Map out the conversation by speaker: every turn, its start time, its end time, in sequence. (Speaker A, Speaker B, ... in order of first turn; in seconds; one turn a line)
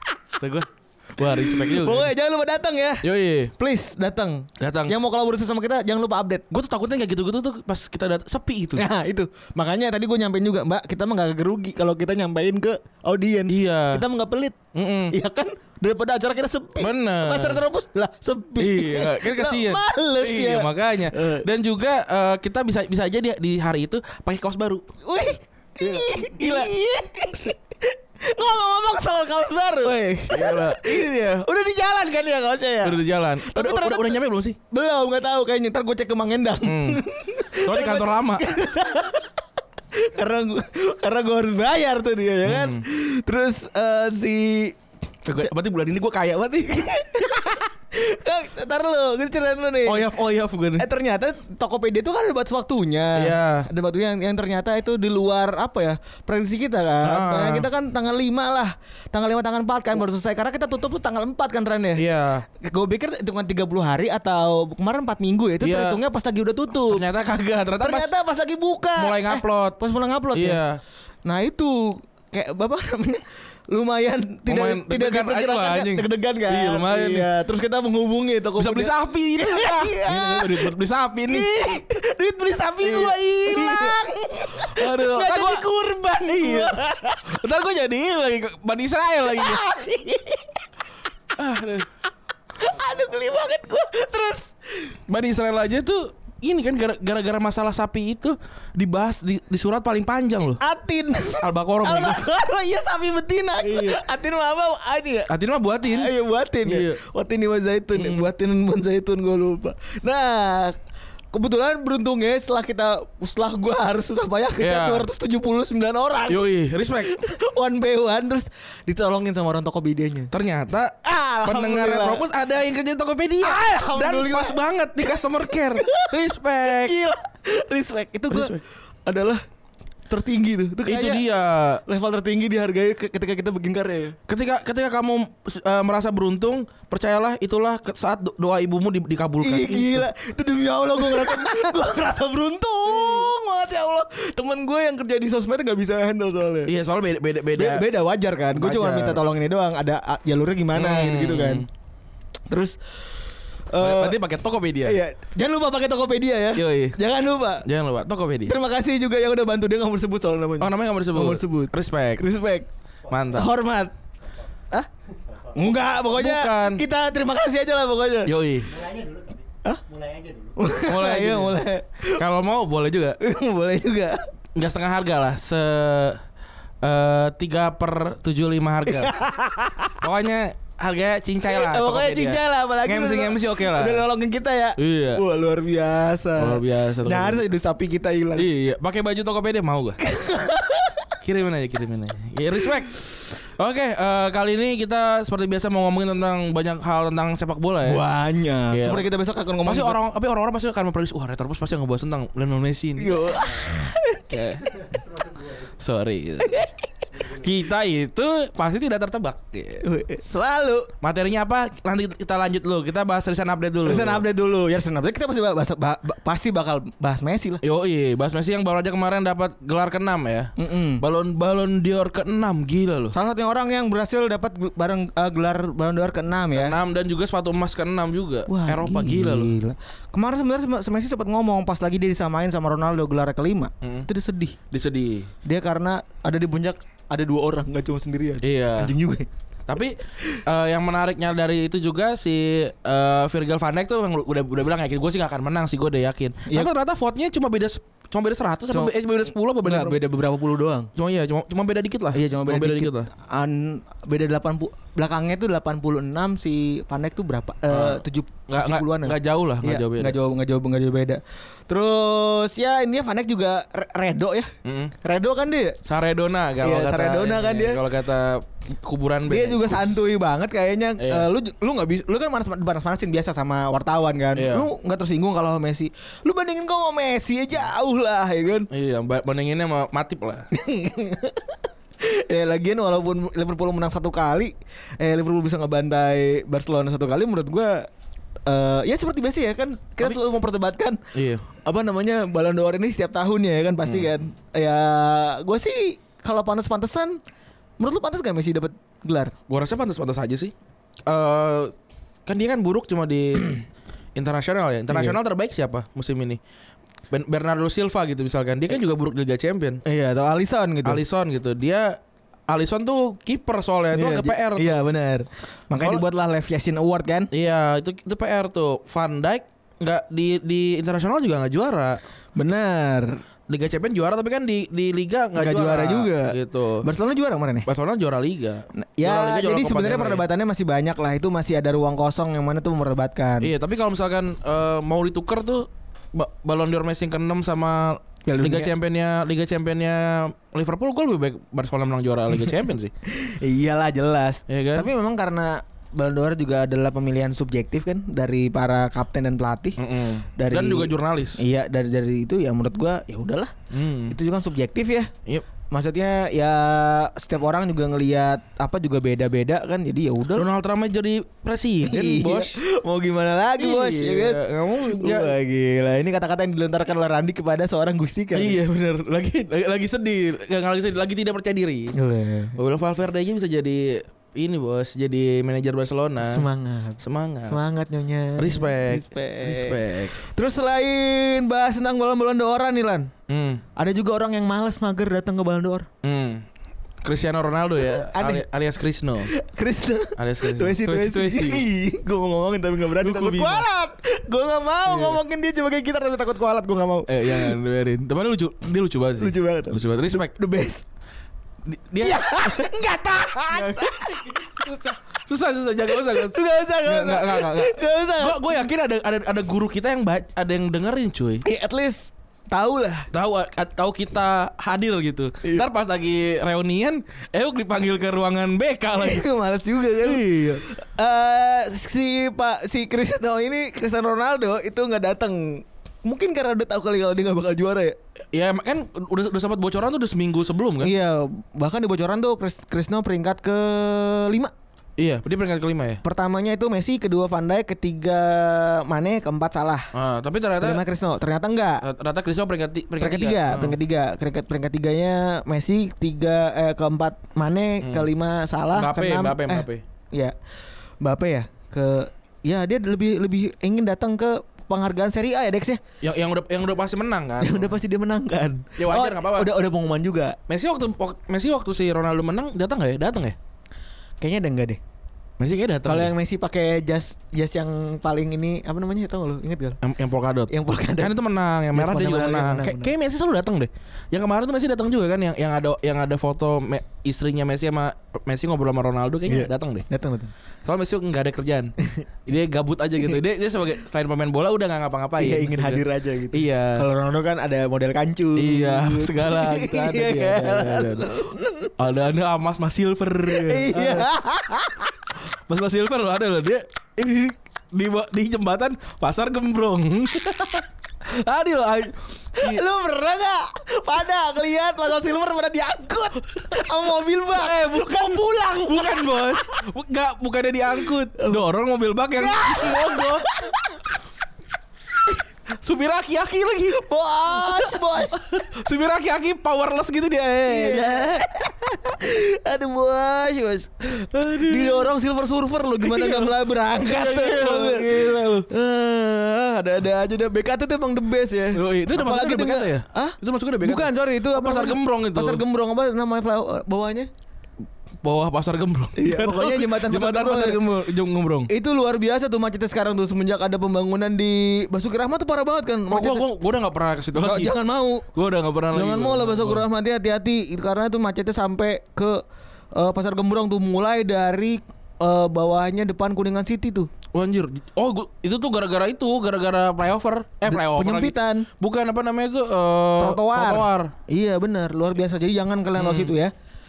Speaker A: 0.4-2.1
Speaker B: 1.2-6.4
Speaker A: 3.0-3.5
Speaker A: 4.6-4.9
Speaker A: 6.5-8.8
Speaker B: 8.8-14.6
Speaker A: 13.5-14.0
Speaker A: 14.7-15.2
Speaker B: 15.1-21.5
Speaker A: 16.8-17.6
Speaker A: 18.6-24.9
Speaker B: 25.0-39.3
Speaker A: 25.8-26.7
Speaker A: 29.8-31.2
Speaker A: 32.8-34.6
Speaker A: 36.6-37.0
Speaker A: 37.5-38.5
Speaker B: 40.0-44.8
Speaker A: 42.4-42.8
Speaker A: 45.2-47.3
Speaker B: 47.0-50.1
Speaker A: 49.9-50.9
Speaker B: 50.8-62.0
Speaker A: 53.2-53.7
Speaker A: 57.0-57.7
Speaker A: 61.9-62.4
Speaker B: 62.6-67.0
Speaker A: 65.6-66.0
Speaker A: 66.9-68.1
Speaker B: 67.8-70.6
Speaker A: 69.0-69.8
Speaker A: 70.3-70.8
Speaker B: 71.2-80.7
Speaker A: 74.5-77.3
Speaker A: 78.6-81.8
Speaker B: 81.3-87.3
Speaker A: 82.8-84.0
Speaker A: 84.6-89.6
Speaker B: 89.3-90.4
Speaker A: 91.4-91.9
Speaker B: 92.6-95.0
Speaker A: 95.1-100.6
Speaker B: 100.6-105.3
Speaker A: 101.4-102.2
Speaker A: 103.6-104.0
Speaker A: 105.3-106.1
Speaker B: 105.8-110.8
Speaker A: 106.6-107.0
Speaker A: 107.9-108.3
Speaker B: 111.3-116.5
Speaker A: 114.6-115.1
Speaker A: 116.3-117.2
Speaker B: 117.0-120.3
Speaker A: 120.3-127.0
Speaker B: 121.0-122.2
Speaker B: 123.4-124.6
Speaker B: 125.1-126.1
Speaker B: 126.6-129.4
Speaker A: 128.3-128.6
Speaker B: 130.1-131.3
Speaker A: 130.8-131.8
Speaker B: 131.8-134.2
Speaker A: 134.3-140.1
Speaker B: 139.4-146.7
Speaker A: 141.0-141.8
Speaker A: 142.9-143.3
Speaker A: 146.7-147.9
Speaker B: 147.5-151.7
Speaker A: 148.6-149.2
Speaker A: 150.7-151.7
Speaker B: 152.5-152.8
Speaker B: 153.7-154.2
Speaker A: 153.8-155.0
Speaker B: 154.8-157.6
Speaker A: 156.6-157.0
Speaker A: 157.6-158.6
Speaker B: 158.5-162.7
Speaker A: 160.6-162.2
Speaker C: 163.1-163.4
Speaker A: 163.1-163.5
Speaker B: 163.3-163.9
Speaker C: 164.2-164.5
Speaker C: 165.1-165.8
Speaker B: 165.6-168.3
Speaker A: 165.6-166.8
Speaker A: 168.2-168.8
Speaker C: 168.6-170.6
Speaker B: 170.6-172.2
Speaker A: 170.8-171.6
Speaker A: 172.1-173.2
Speaker B: 173.2-174.3
Speaker A: 174.6-176.2
Speaker A: 176.8-179.1
Speaker B: 178.9-180.0
Speaker A: 180.0-184.1
Speaker B: 181.5-188.5
Speaker A: 184.8-185.2
Speaker A: 186.4-187.5
Speaker A: 188.3-190.0
Speaker B: 190.0-191.1
Speaker A: 191.2-198.0
Speaker B: 197.8-200.0
Speaker A: 198.7-199.1
Speaker A: 199.6-203.5
Speaker B: 203.0-204.6
Speaker A: 204.3-204.8
Speaker C: 204.8-205.7
Speaker A: 205.7-209.9
Speaker B: 206.4-206.7
Speaker C: 207.1-207.5
Speaker B: 209.8-210.9
Speaker A: 211.0-214.2
Speaker B: 213.8-217.6
Speaker A: 217.6-223.1
Speaker B: 220.6-221.0
Speaker B: 223.1-226.8
Speaker A: 226.5-229.5
Speaker B: 228.5-234.6
Speaker A: 233.8-234.1
Speaker A: 234.7-235.3
Speaker B: 235.4-239.3
Speaker A: 238.4-238.9
Speaker A: 239.7-250.0
Speaker B: 249.6-250.9
Speaker A: 251.0-253.1
Speaker B: 252.1-264.5
Speaker A: 257.7-260.2
Speaker A: 264.6-264.9
Speaker B: 265.0-265.8
Speaker A: 265.9-270.1
Speaker B: 266.6-267.8
Speaker B: 269.3-278.7
Speaker A: 271.0-271.3
Speaker A: 274.4-274.7
Speaker A: 278.7-280.5
Speaker B: 280.5-287.9
Speaker B: 288.5-291.0
Speaker A: 291.1-291.4
Speaker B: 291.6-297.2
Speaker B: 297.8-299.3
Speaker A: 299.5-300.5
Speaker A: 301.1-301.7
Speaker A: 302.2-303.5
Speaker A: 304.1-306.4
Speaker B: 304.9-305.2
Speaker A: 307.1-309.8
Speaker B: 309.8-311.0
Speaker A: 310.9-314.8
Speaker B: 313.9-317.3
Speaker A: 315.8-316.0
Speaker A: 317.3-322.0
Speaker B: 322.4-323.2
Speaker A: 323.5-326.9
Speaker B: 325.4-327.7
Speaker A: 327.6-330.2
Speaker B: 328.8-333.5
Speaker A: 333.4-342.9
Speaker B: 338.3-338.7
Speaker B: 343.1-349.8
Speaker A: 344.5-344.9
Speaker A: 349.8-351.4
Speaker B: 350.4-353.5
Speaker A: 353.7-354.2
Speaker B: 354.1-355.1
Speaker B: 355.7-360.5
Speaker A: 360.4-362.6
Speaker B: 361.8-368.6
Speaker A: 363.6-365.4
Speaker A: 368.3-371.9
Speaker B: 371.9-372.6
Speaker A: 372.6-376.5
Speaker B: 376.2-383.1
Speaker A: 377.0-377.6
Speaker A: 378.4-380.1
Speaker A: 383.3-383.6
Speaker B: 383.8-385.9
Speaker A: 386.0-386.4
Speaker A: 387.0-389.3
Speaker B: 387.8-388.4
Speaker B: 389.2-397.6
Speaker A: 390.2-391.6
Speaker A: 393.0-393.7
Speaker A: 394.9-395.2
Speaker A: 397.1-400.3
Speaker B: 399.2-400.8
Speaker A: 401.6-402.7
Speaker B: 402.0-404.4
Speaker A: 403.4-411.4
Speaker B: 406.0-408.7
Speaker B: 411.4-413.1
Speaker A: 413.1-419.3
Speaker B: 419.0-428.0
Speaker A: 420.0-420.6
Speaker A: 428.3-430.9
Speaker B: 430.8-434.5
Speaker A: 435.0-436.0
Speaker B: 436.0-439.9
Speaker A: 439.9-440.8
Speaker B: 440.6-441.8
Speaker A: 441.8-443.8
Speaker B: 443.0-450.3
Speaker A: 447.8-448.1
Speaker A: 448.7-449.8
Speaker B: 451.0-455.8
Speaker A: 456.0-457.8
Speaker B: 457.4-460.4
Speaker A: 458.8-459.5
Speaker A: 460.5-463.4
Speaker B: 464.2-464.8
Speaker A: 465.4-466.1
Speaker B: 465.9-469.8
Speaker A: 469.8-479.9
Speaker B: 470.5-471.1
Speaker B: 471.7-472.9
Speaker B: 479.3-480.3
Speaker A: 480.6-481.7
Speaker A: 482.2-486.9
Speaker B: 485.2-491.7
Speaker A: 488.4-494.1
Speaker B: 493.3-494.9
Speaker A: 495.5-502.6
Speaker B: 502.4-509.5
Speaker A: 507.3-513.2
Speaker B: 511.2-511.5
Speaker B: 512.2-513.6
Speaker A: 515.6-521.2
Speaker B: 516.7-518.2
Speaker B: 520.5-523.8
Speaker A: 523.8-524.9
Speaker B: 524.5-537.1
Speaker A: 525.8-528.5
Speaker A: 531.5-535.4
Speaker A: 538.0-541.5
Speaker B: 539.0-540.6
Speaker B: 541.5-546.2
Speaker A: 545.9-547.6
Speaker B: 547.1-548.0
Speaker A: 548.1-549.6
Speaker B: 548.7-552.2
Speaker B: 552.7-556.9
Speaker A: 557.1-563.9
Speaker B: 560.5-561.5
Speaker B: 563.0-566.3
Speaker A: 565.8-566.1